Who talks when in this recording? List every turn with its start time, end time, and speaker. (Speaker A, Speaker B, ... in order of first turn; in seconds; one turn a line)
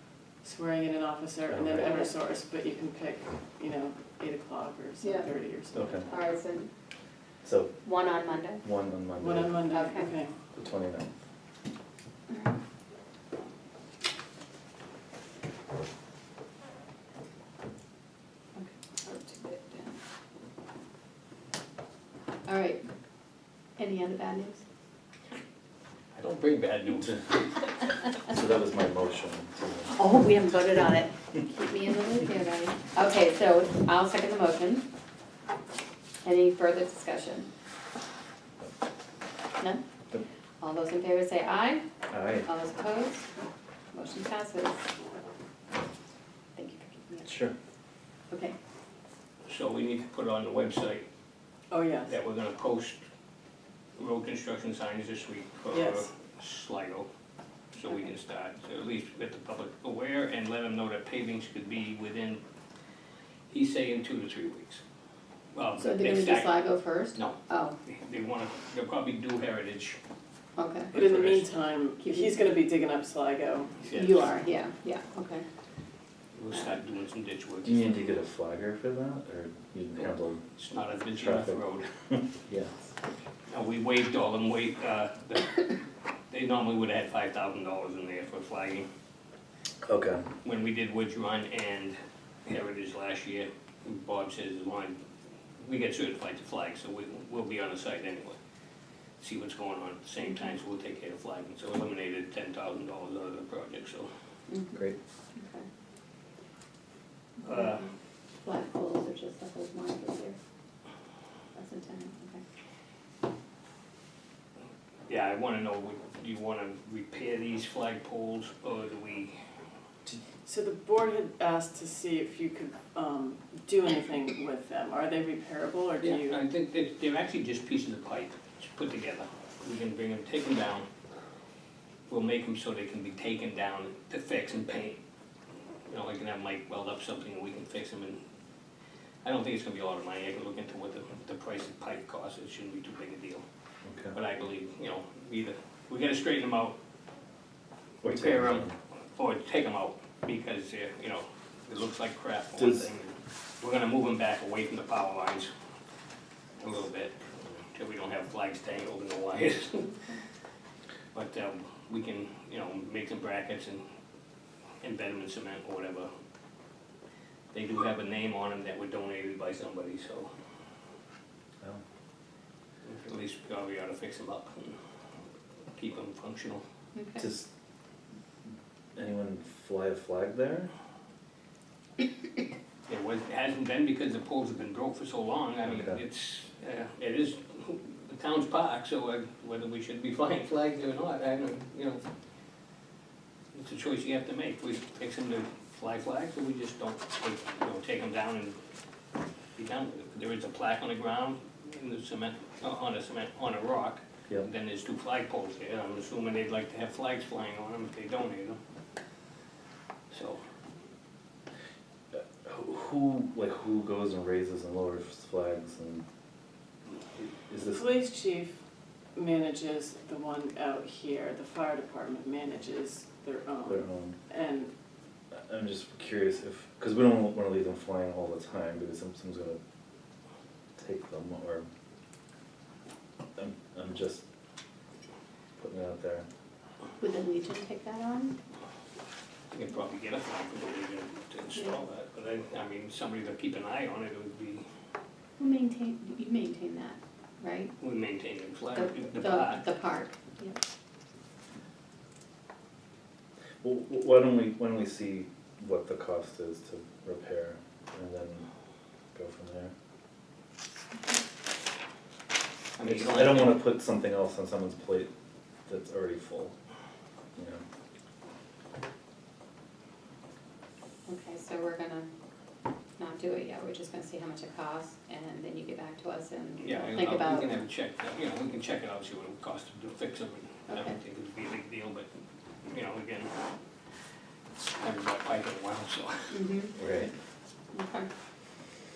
Speaker A: 0.4-6.0
Speaker B: 1.5-1.9
Speaker C: 1.8-2.1
Speaker C: 5.0-5.3
Speaker B: 5.7-6.1
Speaker C: 6.0-6.7
Speaker B: 7.4-7.8
Speaker C: 7.8-8.6
Speaker B: 8.6-9.6
Speaker A: 9.2-10.3
Speaker C: 9.7-10.1
Speaker B: 10.5-11.1
Speaker C: 12.3-12.6
Speaker C: 18.6-20.0
Speaker C: 22.5-22.8
Speaker C: 23.8-24.6
Speaker D: 26.1-27.4
Speaker B: 28.2-29.9
Speaker C: 30.0-34.9
Speaker C: 36.2-37.5
Speaker C: 40.6-41.8
Speaker B: 42.1-42.5
Speaker C: 42.4-43.3
Speaker C: 43.9-44.8
Speaker C: 46.5-47.3
Speaker B: 47.2-47.5
Speaker C: 48.3-48.6
Speaker D: 49.5-51.0
Speaker A: 51.7-52.1
Speaker D: 52.1-53.0
Speaker D: 54.0-57.1
Speaker A: 55.7-56.0
Speaker D: 57.7-62.4
Speaker D: 63.5-64.8
Speaker D: 65.5-66.6
Speaker C: 65.8-67.8
Speaker D: 67.2-70.0
Speaker C: 70.6-70.9
Speaker D: 70.9-71.6
Speaker A: 70.9-73.8
Speaker C: 72.0-72.4
Speaker D: 73.8-74.3
Speaker C: 73.9-75.5
Speaker D: 76.3-78.1
Speaker B: 77.6-80.4
Speaker D: 80.6-81.9
Speaker B: 81.2-81.6
Speaker B: 82.1-82.7
Speaker D: 83.5-85.8
Speaker D: 86.3-88.9
Speaker B: 89.8-90.2
Speaker D: 90.4-95.0
Speaker D: 95.6-98.4
Speaker D: 99.2-104.1
Speaker C: 100.2-100.5
Speaker C: 104.5-104.8
Speaker C: 105.3-105.7
Speaker C: 107.4-107.9
Speaker D: 107.4-107.9
Speaker C: 108.4-110.4
Speaker C: 111.5-112.4
Speaker D: 115.1-119.3
Speaker A: 120.5-126.4
Speaker D: 126.0-130.9
Speaker D: 132.1-135.0
Speaker D: 135.9-138.2
Speaker D: 139.2-143.4
Speaker B: 143.8-144.2
Speaker D: 144.1-146.8
Speaker B: 148.0-148.8
Speaker D: 148.1-155.5
Speaker B: 152.6-152.9
Speaker D: 156.6-160.0
Speaker D: 161.1-163.8
Speaker D: 164.8-166.1
Speaker D: 167.5-170.3
Speaker D: 172.8-174.8
Speaker D: 175.8-176.6
Speaker C: 176.9-177.2
Speaker B: 177.2-177.5
Speaker B: 179.0-180.7
Speaker D: 182.9-192.0
Speaker B: 185.7-186.0
Speaker D: 193.5-198.6
Speaker D: 199.6-208.6
Speaker D: 210.1-210.4
Speaker B: 212.1-216.0
Speaker B: 217.2-217.8
Speaker A: 217.7-218.6
Speaker A: 219.2-224.7
Speaker B: 223.7-224.2
Speaker B: 225.3-229.6
Speaker B: 230.8-231.7
Speaker B: 233.4-234.2
Speaker B: 235.6-236.3
Speaker C: 237.0-238.4
Speaker D: 239.5-244.7
Speaker C: 245.4-247.7
Speaker D: 247.8-249.7
Speaker C: 248.7-250.6
Speaker B: 253.6-258.5
Speaker B: 259.1-259.7
Speaker D: 262.8-263.6
Speaker B: 262.8-265.1
Speaker B: 265.7-266.5
Speaker B: 267.4-267.6
Speaker C: 271.1-272.1
Speaker C: 273.0-277.6
Speaker D: 276.6-282.1
Speaker C: 280.7-281.0
Speaker D: 282.6-283.5
Speaker D: 284.8-286.4
Speaker C: 286.3-286.8
Speaker B: 286.8-287.1
Speaker C: 287.7-288.1